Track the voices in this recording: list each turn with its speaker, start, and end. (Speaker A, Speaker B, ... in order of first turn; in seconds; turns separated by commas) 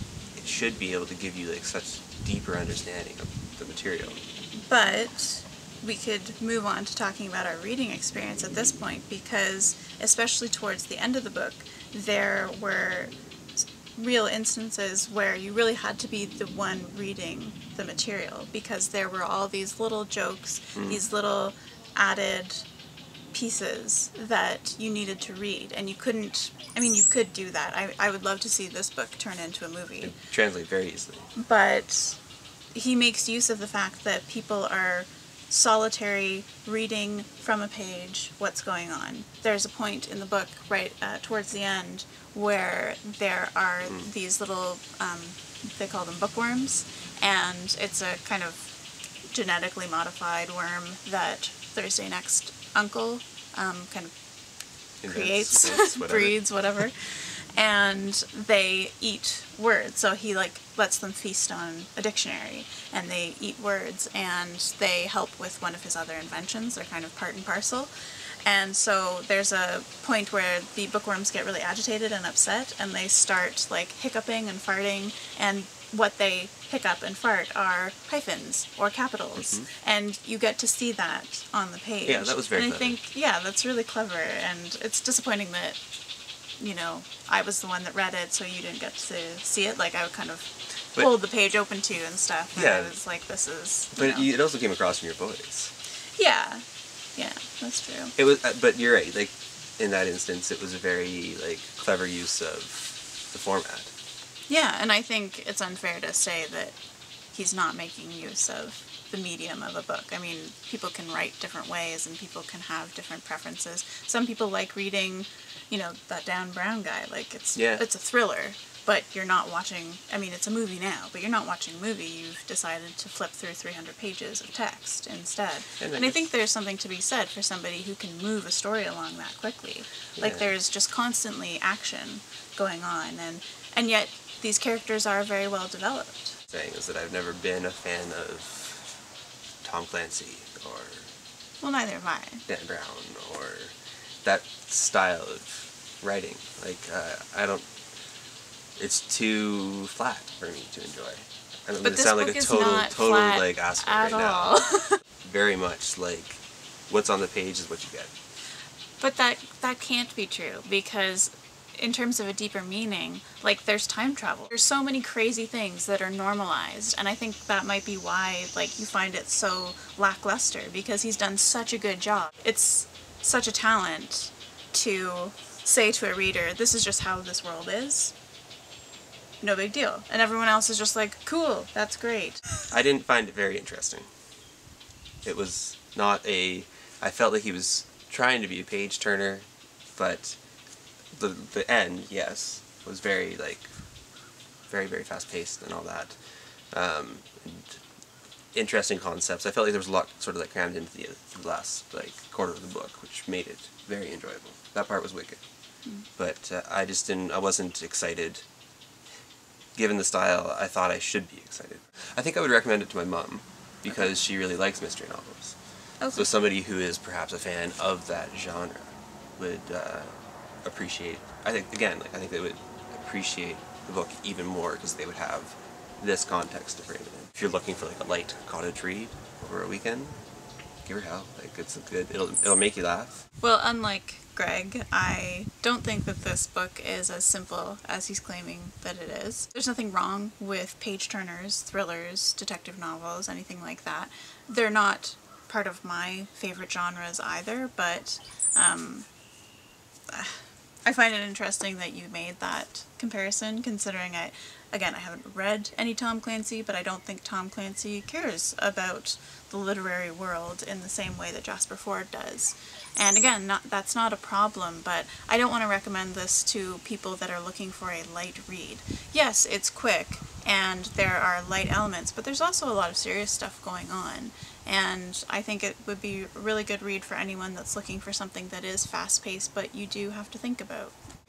Speaker A: 0.3-4.2, Speaker B: 4.7-13.1, Speaker B: 13.9-22.7, Speaker A: 20.8-21.1, Speaker B: 23.3-30.1, Speaker A: 30.0-31.3, Speaker B: 31.4-32.2, Speaker B: 32.7-48.7, Speaker B: 49.3-54.1, Speaker A: 55.0-56.4, Speaker B: 55.1-67.9, Speaker B: 68.5-85.8, Speaker A: 79.4-79.7, Speaker A: 82.0-83.0, Speaker B: 86.6-94.3, Speaker A: 92.5-93.0, Speaker A: 94.0-95.7, Speaker B: 96.2-96.6, Speaker B: 97.2-98.2, Speaker A: 98.2-103.9, Speaker B: 104.5-106.8, Speaker B: 107.3-136.4, Speaker A: 117.6-117.8, Speaker A: 125.8-126.3, Speaker A: 130.2-130.5, Speaker A: 136.5-138.9, Speaker A: 139.6-141.1, Speaker B: 141.6-142.4, Speaker A: 142.5-147.7, Speaker A: 148.8-154.6, Speaker B: 151.8-155.0, Speaker A: 155.2-158.1, Speaker B: 159.0-178.1, Speaker B: 179.4-182.4, Speaker A: 182.7-184.1, Speaker A: 185.2-190.4, Speaker A: 191.2-193.7, Speaker A: 194.7-196.2, Speaker A: 196.7-197.8, Speaker A: 198.5-205.4, Speaker A: 206.2-208.4, Speaker A: 209.8-215.6, Speaker B: 216.0-216.3, Speaker A: 216.1-230.2, Speaker A: 230.8-233.2, Speaker B: 233.4-249.1, Speaker B: 250.1-280.9